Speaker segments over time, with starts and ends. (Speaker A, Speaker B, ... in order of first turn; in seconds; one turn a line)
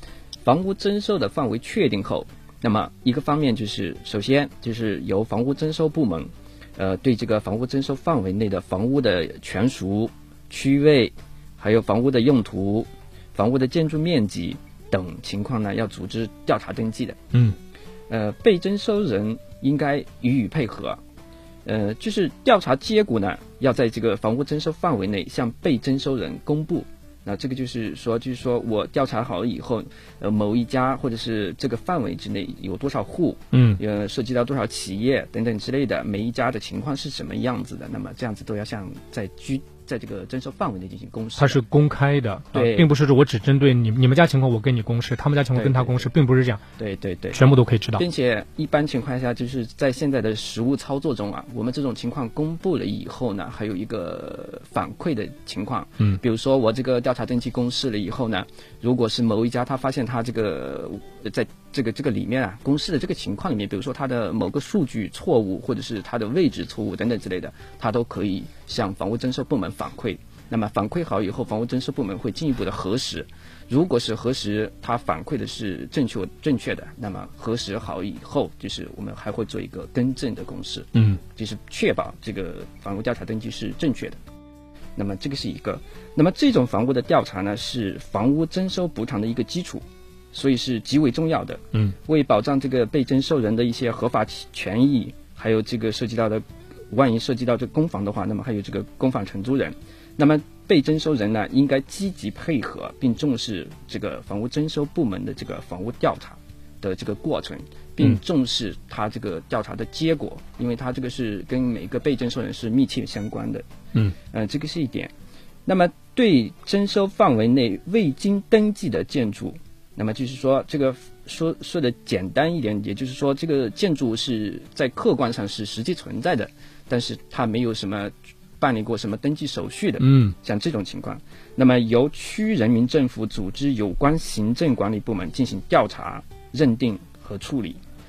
Speaker A: 0.5-17.3
Speaker A: 18.1-21.0
Speaker A: 21.6-41.6
Speaker B: 33.5-33.8
Speaker B: 41.4-46.6
Speaker A: 42.5-42.9
Speaker A: 45.5-46.1
Speaker A: 46.8-47.4
Speaker B: 47.3-48.0
Speaker A: 48.0-84.2
Speaker B: 81.0-81.2
Speaker A: 85.0-113.7
Speaker A: 114.3-115.1
Speaker A: 115.7-137.8
Speaker B: 130.0-130.3